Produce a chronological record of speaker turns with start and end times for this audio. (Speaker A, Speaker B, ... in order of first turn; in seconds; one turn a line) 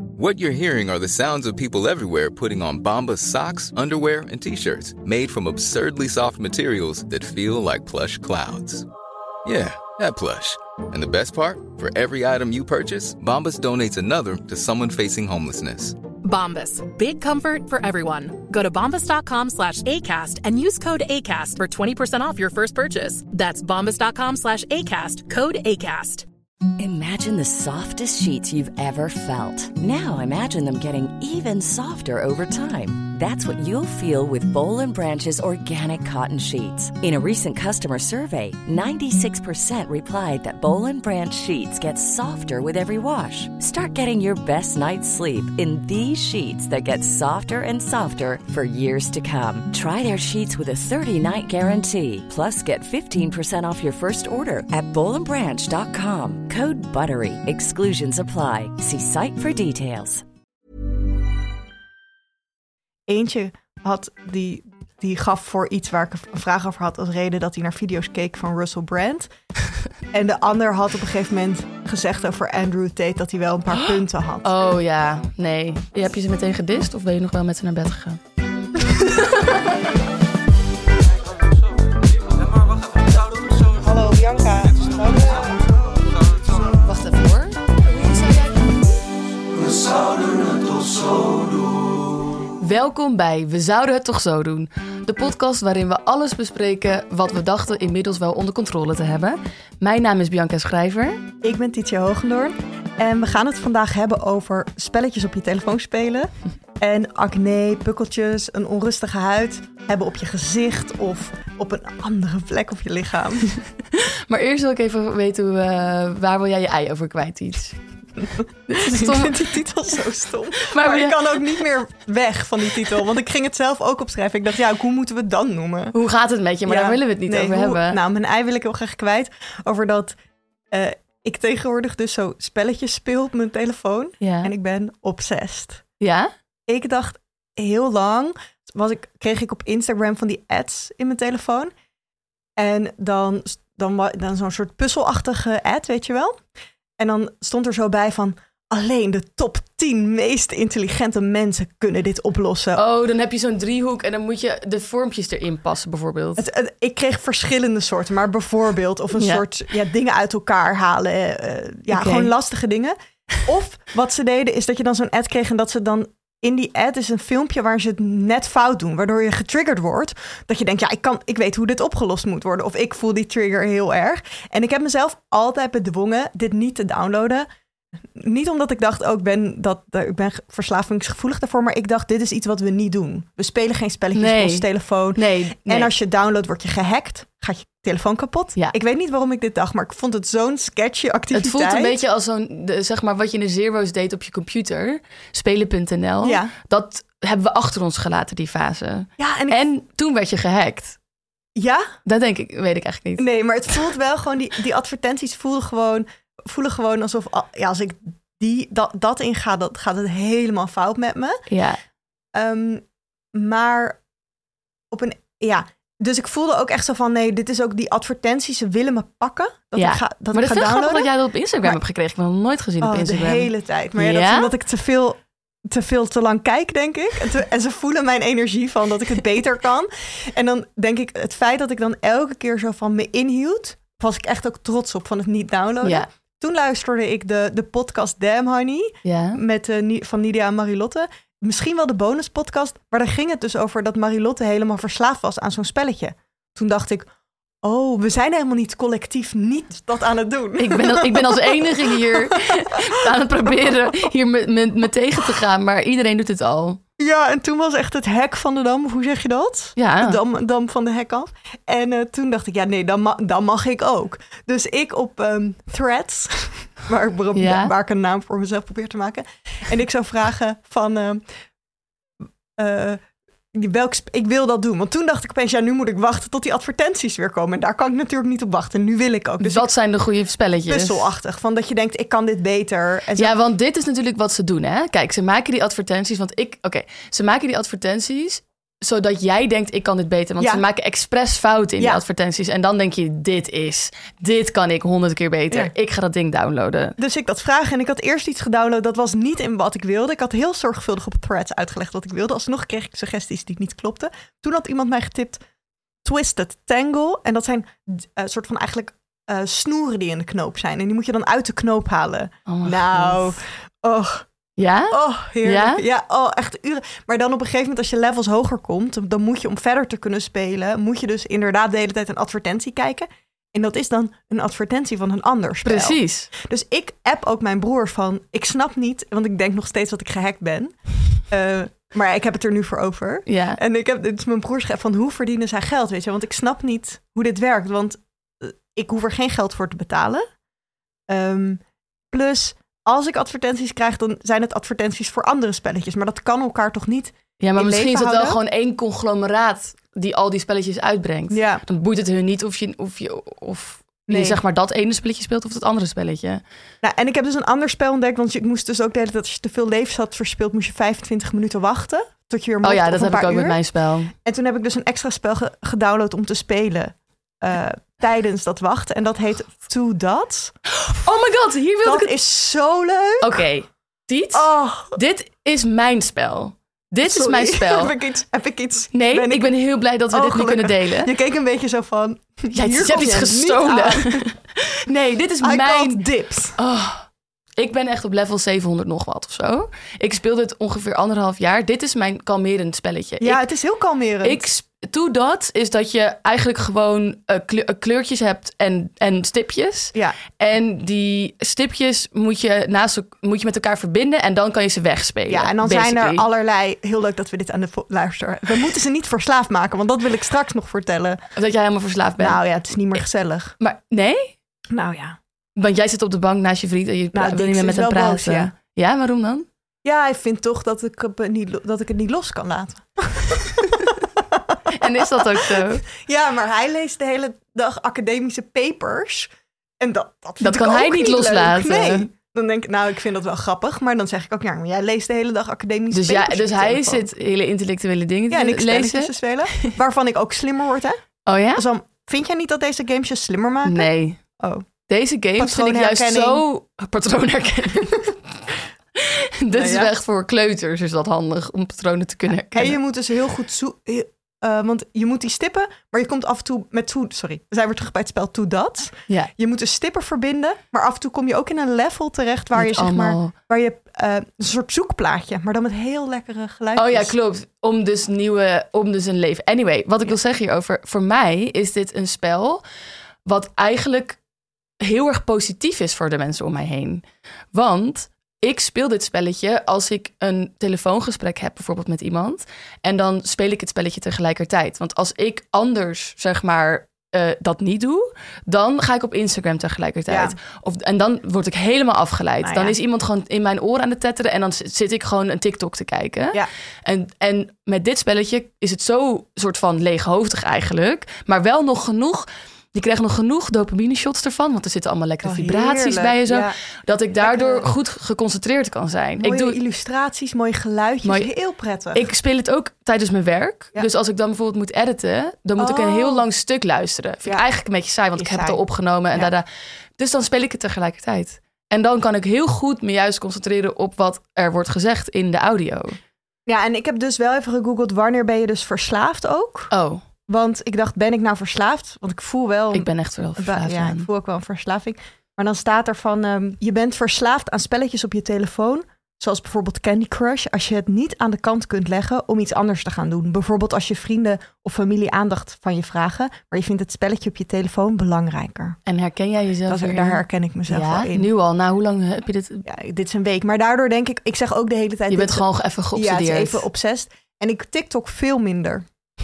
Speaker A: 0.1-8.9
Speaker A: 9.4-16.0
Speaker B: 16.2-26.2
Speaker C: 26.8-60.2
Speaker D: 63.1-69.3
Speaker D: 70.1-74.5
Speaker E: 74.4-78.2
Speaker D: 78.9-79.2
Speaker E: 79.0-79.4
Speaker D: 83.6-86.0
Speaker E: 86.8-88.7
Speaker E: 92.6-101.2
Speaker D: 101.4-113.5
Speaker E: 114.0-117.8
Speaker D: 118.4-125.9
Speaker E: 118.7-119.4
Speaker E: 120.6-121.4
Speaker E: 125.9-128.0
Speaker D: 126.7-130.2
Speaker D: 130.7-135.8
Speaker E: 134.2-134.5
Speaker E: 136.0-136.3
Speaker D: 136.7-141.7
Speaker D: 142.6-146.4
Speaker D: 147.0-152.8
Speaker E: 152.7-156.4
Speaker D: 156.4-177.5
Speaker E: 159.1-159.4
Speaker E: 161.9-162.3
Speaker D: 178.1-192.0
Speaker E: 184.1-185.9
Speaker E: 191.3-201.0
Speaker D: 196.2-196.5
Speaker D: 199.2-199.6
Speaker D: 201.6-201.9
Speaker E: 202.1-203.2
Speaker D: 203.2-211.4
Speaker E: 211.5-211.8
Speaker D: 212.3-214.0
Speaker D: 214.9-221.1
Speaker E: 219.8-224.5
Speaker D: 222.8-247.1
Speaker E: 239.0-239.4
Speaker D: 247.6-252.8
Speaker E: 250.6-256.8
Speaker D: 257.0-271.2
Speaker E: 259.8-260.2
Speaker E: 267.3-267.7
Speaker D: 272.6-273.0
Speaker D: 273.5-279.7
Speaker E: 279.4-281.1
Speaker D: 280.7-283.4
Speaker E: 283.2-296.9
Speaker D: 297.0-305.4
Speaker D: 306.0-314.3
Speaker E: 312.5-313.3
Speaker E: 314.6-315.8
Speaker D: 314.9-340.2
Speaker E: 325.6-326.3
Speaker E: 333.2-333.6
Speaker D: 341.1-348.4
Speaker E: 347.4-356.4
Speaker D: 351.3-351.6
Speaker D: 354.1-354.4
Speaker D: 356.8-363.6
Speaker E: 362.6-364.1
Speaker D: 364.1-370.5
Speaker E: 370.7-372.1
Speaker D: 371.8-373.4
Speaker E: 373.2-377.9
Speaker D: 374.3-375.0
Speaker D: 377.0-379.5
Speaker E: 378.9-381.1
Speaker D: 380.1-384.2
Speaker E: 382.5-386.0
Speaker D: 385.4-386.6
Speaker E: 386.6-393.4
Speaker D: 393.2-394.4
Speaker E: 394.2-406.2
Speaker D: 405.3-411.2
Speaker E: 411.4-412.4
Speaker D: 412.2-413.6
Speaker E: 413.6-414.3
Speaker D: 414.7-415.2
Speaker E: 415.6-419.5
Speaker D: 417.1-418.5
Speaker D: 419.8-437.1
Speaker E: 424.7-425.8
Speaker E: 430.4-432.1
Speaker E: 435.9-439.7
Speaker D: 438.3-441.0
Speaker E: 441.3-441.6
Speaker D: 441.5-444.7
Speaker E: 443.6-444.2
Speaker E: 444.9-448.1
Speaker D: 445.4-446.4
Speaker E: 448.9-452.8
Speaker D: 449.5-449.9
Speaker D: 452.5-467.1
Speaker E: 462.6-463.3
Speaker E: 466.8-472.6
Speaker E: 473.2-474.2
Speaker E: 474.8-509.6
Speaker D: 490.1-490.4
Speaker D: 492.4-492.7
Speaker D: 505.2-506.6
Speaker D: 507.2-507.7
Speaker D: 509.2-512.0
Speaker E: 511.0-511.3
Speaker E: 511.9-519.5
Speaker D: 515.6-516.2
Speaker D: 518.1-518.6
Speaker E: 520.0-526.0
Speaker D: 526.5-529.7
Speaker E: 529.7-530.0
Speaker D: 530.3-548.8
Speaker E: 532.7-534.1
Speaker E: 548.9-552.6
Speaker D: 549.7-551.3
Speaker D: 552.6-558.8
Speaker E: 555.1-556.6